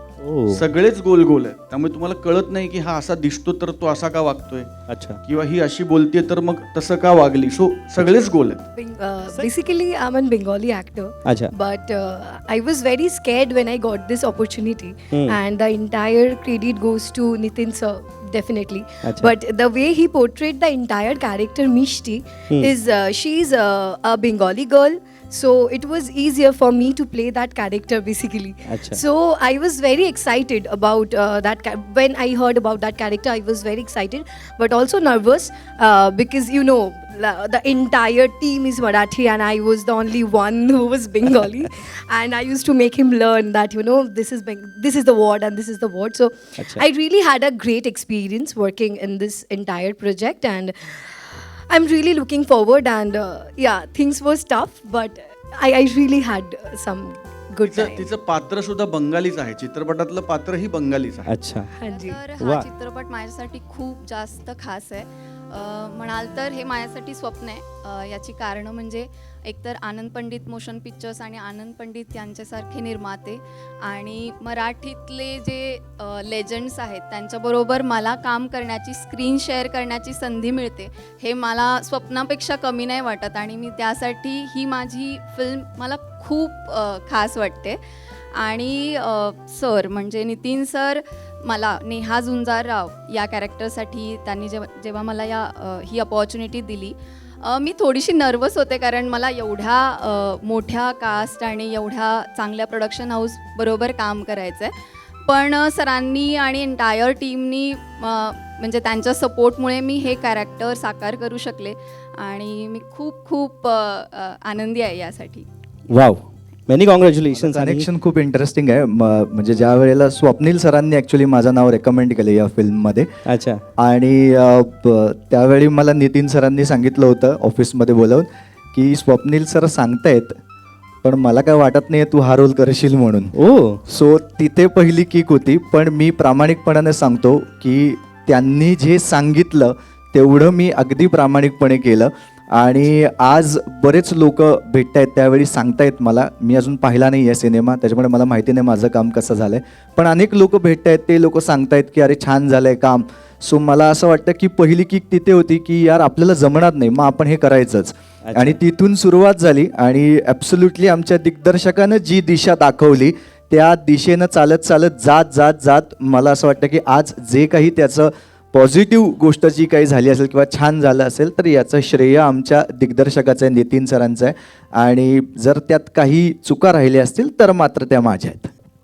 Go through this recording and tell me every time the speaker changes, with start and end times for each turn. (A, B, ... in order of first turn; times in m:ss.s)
0:00.2-0:00.6 A
0:00.5-0:04.7 B
0:04.9-0:05.2 A
0:05.3-0:08.6 B
0:08.7-0:58.1 C
0:11.2-0:11.5 A
0:15.1-0:15.4 A
0:19.0-0:19.3 A
0:28.7-0:29.0 A
0:46.6-0:46.8 A
0:57.6-1:01.3 B
1:01.3-1:01.7 A
1:01.8-1:02.3 C
1:01.8-1:27.8 D
1:02.4-1:02.7 A
1:28.4-1:44.7 D
1:45.2-1:55.5 D
1:55.9-1:57.9 A
1:57.4-2:03.1 E
2:03.3-2:03.6 A
2:03.8-2:10.4 E
2:11.0-2:13.3 E
2:13.4-2:13.8 A
2:13.9-2:58.5 E
2:38.2-2:38.6 A